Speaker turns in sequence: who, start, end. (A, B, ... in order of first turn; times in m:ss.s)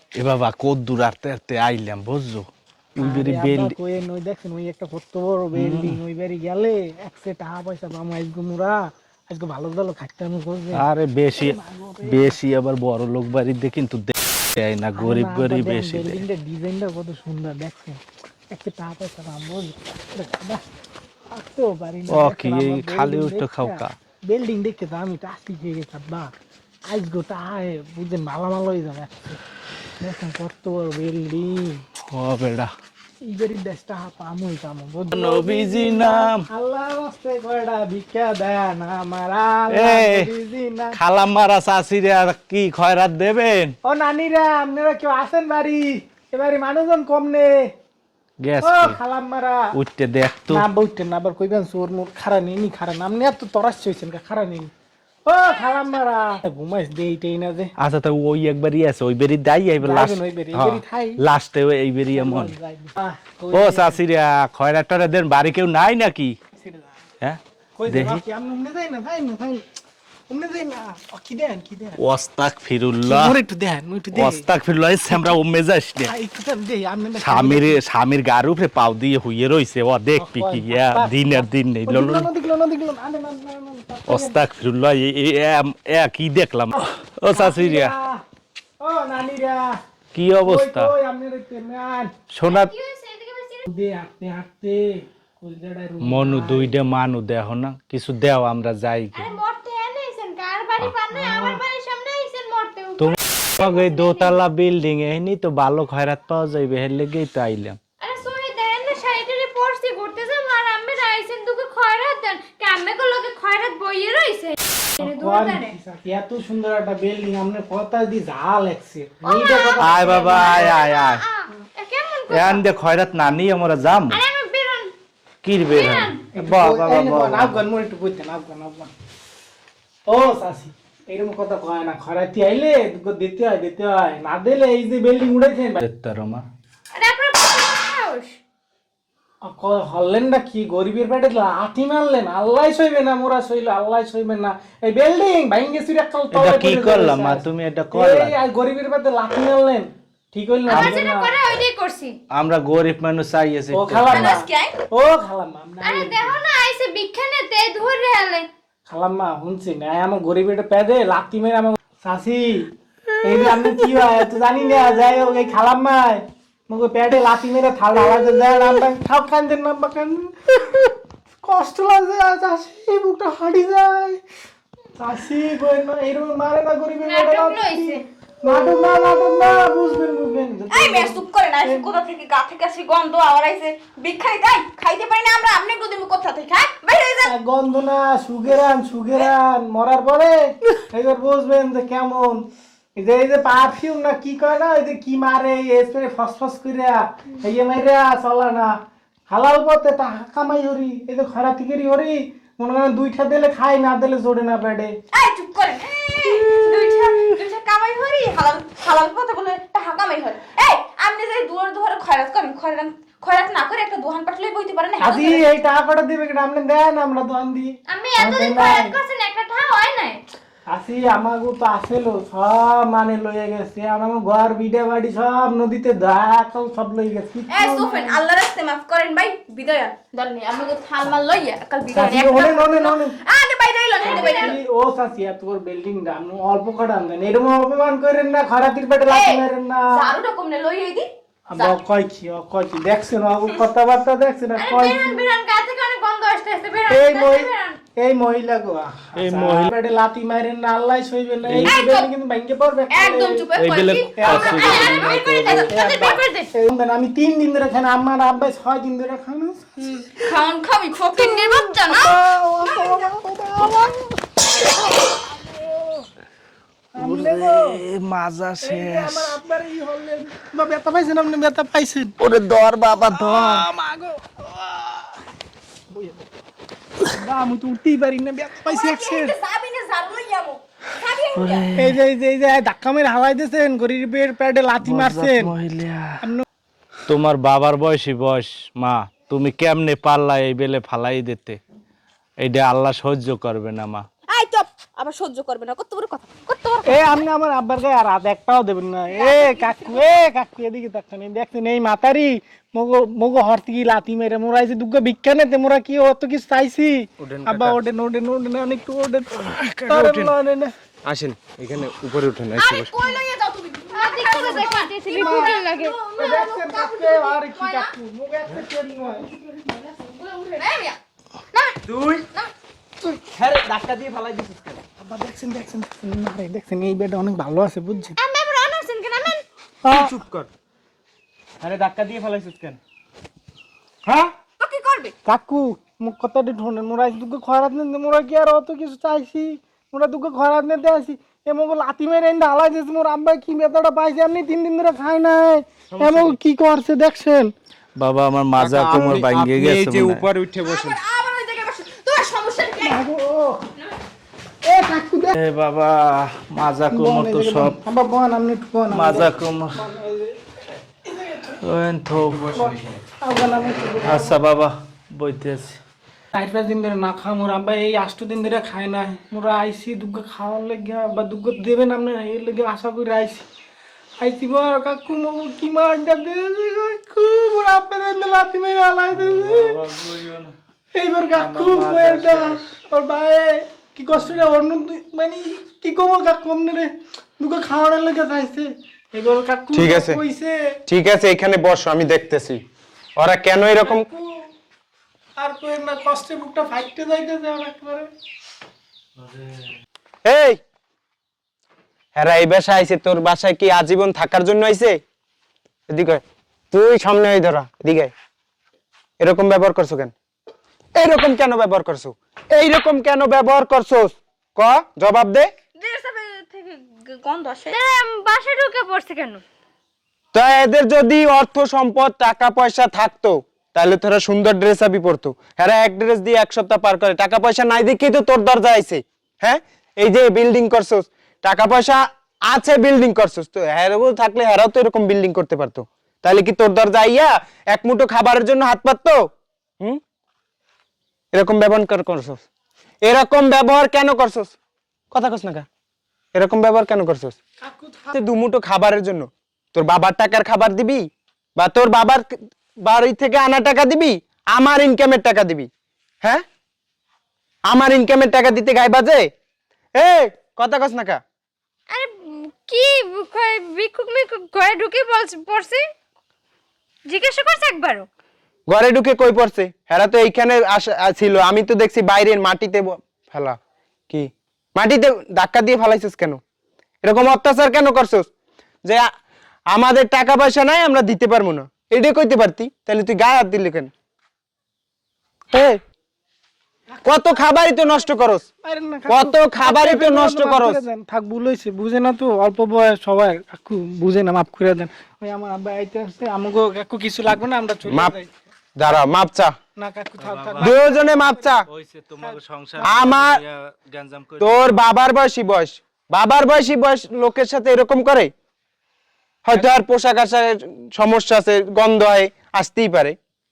0:00.2-0:03.8 A
0:03.0-0:08.8 B
0:05.6-0:06.0 A
0:09.3-0:12.4 B
0:10.8-0:11.6 A
0:12.1-0:16.2 A
0:15.0-0:20.6 B
0:21.3-0:26.4 B
0:22.1-0:23.9 A
0:26.9-0:29.4 B
0:30.0-0:31.8 B
0:32.1-0:32.7 A
0:33.2-0:41.0 B
0:35.1-0:36.4 A
0:39.7-0:40.3 A
0:41.0-0:43.7 A
0:43.8-0:47.7 B
0:48.4-0:49.0 A
0:48.6-0:49.7 B
0:49.8-0:50.6 A
0:50.5-0:54.7 B
0:55.3-0:57.7 B
0:57.8-1:02.5 A
0:59.8-1:01.2 B
1:02.1-1:04.0 B
1:03.5-1:06.4 A
1:06.6-1:07.0 B
1:07.2-1:08.2 A
1:07.8-1:09.6 B
1:10.3-1:12.0 B
1:12.0-1:13.4 A
1:13.1-1:14.4 B
1:14.1-1:16.1 A
1:16.1-1:17.8 B
1:17.2-1:22.3 A
1:20.2-1:24.4 B
1:24.1-1:27.9 A
1:27.3-1:28.2 B
1:28.8-1:29.8 B
1:30.1-1:30.9 A
1:30.4-1:32.1 B
1:32.3-1:32.7 A
1:32.5-1:33.7 C
1:33.7-1:36.8 B
1:36.1-1:39.4 A
1:39.1-1:44.4 C
1:41.1-1:41.6 B
1:43.0-1:47.8 A
1:48.0-1:55.8 C
1:55.0-2:00.7 B
1:59.2-2:02.6 C
1:59.8-2:01.3 A
2:02.3-2:04.2 A
2:04.1-2:04.9 C
2:05.4-2:07.6 A
2:05.7-2:06.2 C
2:06.4-2:08.9 B
2:10.1-2:15.8 B
2:15.8-2:16.4 A
2:16.9-2:18.4 C
2:19.4-2:31.4 B
2:26.3-2:28.4 A
2:30.7-2:32.2 C
2:30.7-2:31.0 A
2:32.4-2:34.4 A
2:33.7-2:36.4 B
2:34.1-2:34.8 D
2:35.8-2:38.5 C
2:38.9-2:42.7 B
2:43.2-2:50.9 B
2:51.4-2:54.2 B
2:55.0-3:01.9 B
2:57.0-2:58.0 C
3:00.7-3:07.3 D
3:07.2-3:12.4 B
3:13.0-3:18.7 B
3:19.3-3:25.0 B
3:25.1-3:35.5 D
3:35.0-3:38.9 B
3:37.9-3:40.2 C
3:40.7-3:48.2 B
3:47.5-3:54.6 D
3:51.9-3:53.2 B
3:54.0-3:59.9 B
3:59.1-4:01.8 D
4:01.5-4:05.2 B
4:04.6-4:07.8 C
4:06.9-4:13.5 B
4:09.2-4:09.7 A
4:11.5-4:11.8 A
4:11.7-4:12.1 D
4:12.9-4:16.3 D
4:13.6-4:15.8 A
4:14.2-4:19.7 B
4:14.8-4:15.2 C
4:15.9-4:16.5 C
4:19.8-4:23.1 D
4:21.2-4:26.1 B
4:27.0-4:27.8 B
4:27.0-4:29.4 A
4:28.6-4:32.2 B
4:32.2-4:33.7 A
4:32.9-4:34.6 B
4:35.9-4:36.2 B
4:37.1-4:39.3 B
4:38.7-4:41.7 D
4:41.3-4:42.0 A
4:41.8-4:45.5 B
4:44.8-4:46.2 A
4:47.1-4:51.6 A
4:52.4-4:54.0 A
4:54.3-4:57.0 D
4:56.8-5:10.7 B
4:59.1-5:00.1 D
5:07.2-5:07.8 E
5:09.5-5:10.4 E
5:11.0-5:12.9 E
5:12.6-5:17.9 D
5:13.9-5:16.0 C
5:15.1-5:15.5 B
5:16.2-5:19.3 B
5:19.7-5:21.0 D
5:21.5-5:22.5 D
5:21.9-5:22.3 E
5:23.3-5:24.8 E
5:25.0-5:28.2 B
5:28.2-5:29.4 C
5:29.8-5:30.1 B
5:29.9-5:30.5 E
5:31.6-5:32.8 E
5:34.6-5:35.2 D
5:35.3-5:47.5 B
5:45.9-5:46.4 E
5:48.0-5:50.3 A
5:48.6-5:51.0 E
5:50.6-5:53.0 D
5:52.8-5:53.6 B
5:54.6-5:55.4 B
5:55.4-5:57.8 A
5:56.9-6:00.4 B
5:58.9-5:59.8 A
6:01.1-6:01.6 B
6:01.6-6:02.7 A
6:02.5-6:04.4 B
6:04.0-6:05.8 A
6:06.3-6:13.5 B
6:14.2-6:19.8 B
6:19.1-6:20.5 A
6:20.9-6:30.6 B
6:21.4-6:22.6 A
6:29.7-6:30.2 E
6:30.9-6:32.6 E
6:33.2-6:34.1 E
6:33.8-6:34.5 B
6:35.4-6:38.1 B
6:39.2-6:39.6 A
6:40.2-6:40.6 E
6:42.2-6:45.0 E
6:45.9-6:48.1 E
6:49.2-6:50.1 E
6:51.0-6:55.5 E
6:55.8-6:57.8 D
6:57.7-6:59.4 C
7:00.3-7:19.3 E
7:21.3-7:22.4 E
7:23.0-7:24.5 E
7:25.1-7:25.7 E
7:26.3-7:27.4 E
7:27.6-7:28.2 B
7:28.1-7:31.1 E
7:31.6-7:35.7 E
7:37.7-7:39.3 E
7:40.0-7:41.2 E
7:41.9-7:45.8 C
7:47.1-7:48.1 C
7:48.7-7:53.6 E
7:54.1-7:56.4 E
7:57.0-7:58.3 E
7:59.7-8:03.9 E
8:05.5-8:05.8 E
8:07.0-8:08.5 E
8:08.6-8:18.3 B
8:09.1-8:10.8 E
8:17.9-8:18.2 E
8:18.8-8:19.5 E
8:19.8-8:21.5 B
8:20.2-8:20.8 A
8:20.6-8:21.6 E
8:21.7-8:24.8 A
8:22.2-8:23.1 B
8:22.8-8:23.4 E
8:24.4-8:28.3 E
8:29.4-8:33.2 E